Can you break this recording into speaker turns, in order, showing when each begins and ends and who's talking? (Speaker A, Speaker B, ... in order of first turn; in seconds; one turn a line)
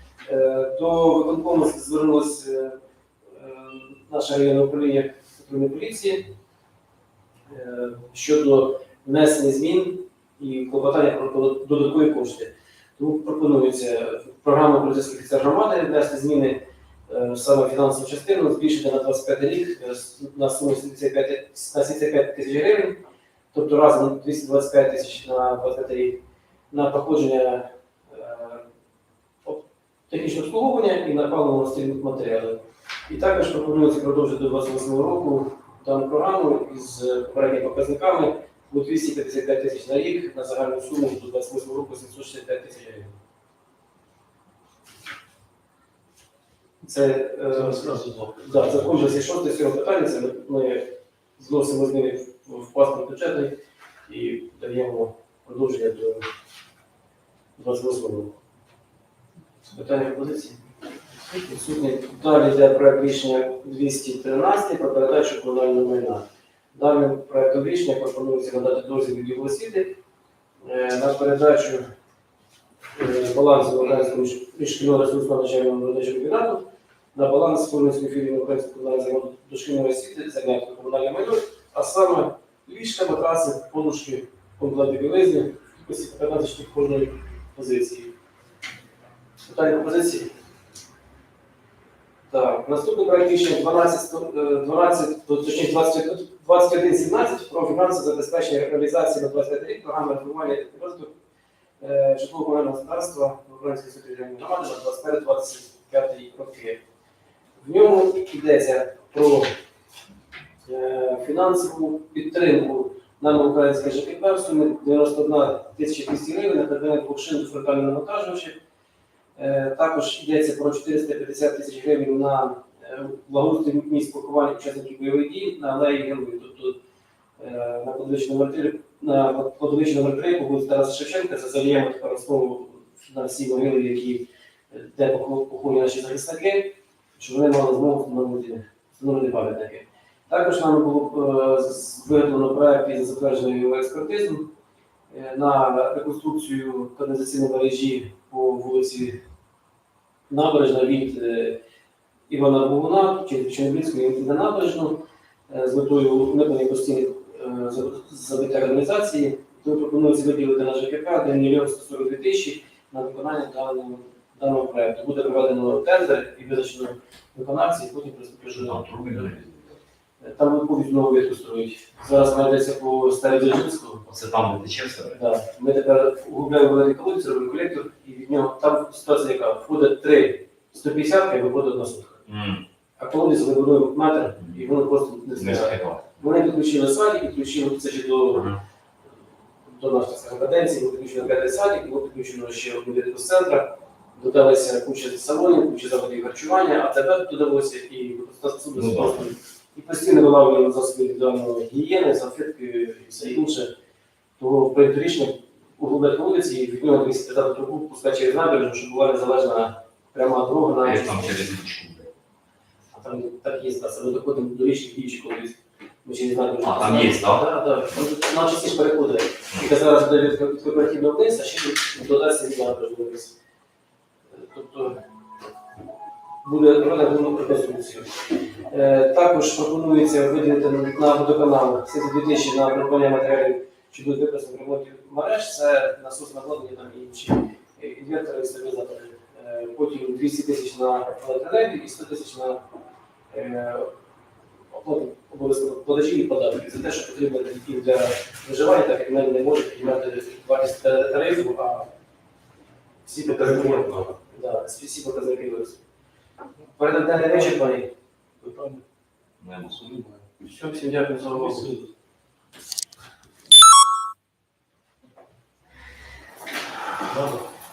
Speaker A: 0.3-2.8
Speaker A: 3.3-6.3
Speaker A: 7.5-28.7
Speaker A: 29.4-43.2
Speaker A: 46.8-47.9
Speaker B: 47.5-49.2
Speaker A: 48.5-50.9
Speaker A: 51.4-56.2
Speaker A: 57.6-58.4
Speaker A: 59.7-60.6
Speaker A: 61.3-69.9
Speaker A: 70.7-71.8
Speaker A: 73.0-88.1
Speaker A: 89.4-90.3
Speaker A: 92.3-101.1
Speaker A: 101.8-106.8
Speaker A: 107.6-109.5
Speaker A: 110.7-118.6
Speaker A: 119.4-126.8
Speaker A: 127.4-144.5
Speaker A: 145.1-149.2
Speaker A: 150.3-151.6
Speaker A: 152.3-169.3
Speaker C: 168.5-169.8
Speaker A: 170.2-174.1
Speaker C: 174.1-175.2
Speaker A: 175.1-182.2
Speaker C: 182.3-182.6
Speaker A: 183.0-188.5
Speaker C: 185.4-186.1
Speaker C: 188.3-188.6
Speaker A: 189.7-203.7
Speaker C: 198.8-199.2
Speaker A: 204.4-211.3
Speaker C: 210.8-212.1
Speaker A: 212.9-223.4
Speaker C: 216.6-217.5
Speaker A: 224.3-225.0
Speaker A: 226.4-228.1
Speaker A: 228.7-242.6
Speaker A: 243.3-243.9
Speaker A: 244.7-251.9
Speaker A: 253.1-255.8
Speaker B: 253.3-254.1
Speaker A: 256.8-257.9
Speaker B: 258.4-258.8
Speaker C: 259.4-259.7
Speaker B: 259.6-260.2
Speaker A: 260.4-261.7
Speaker B: 261.3-261.9
Speaker B: 267.1-267.5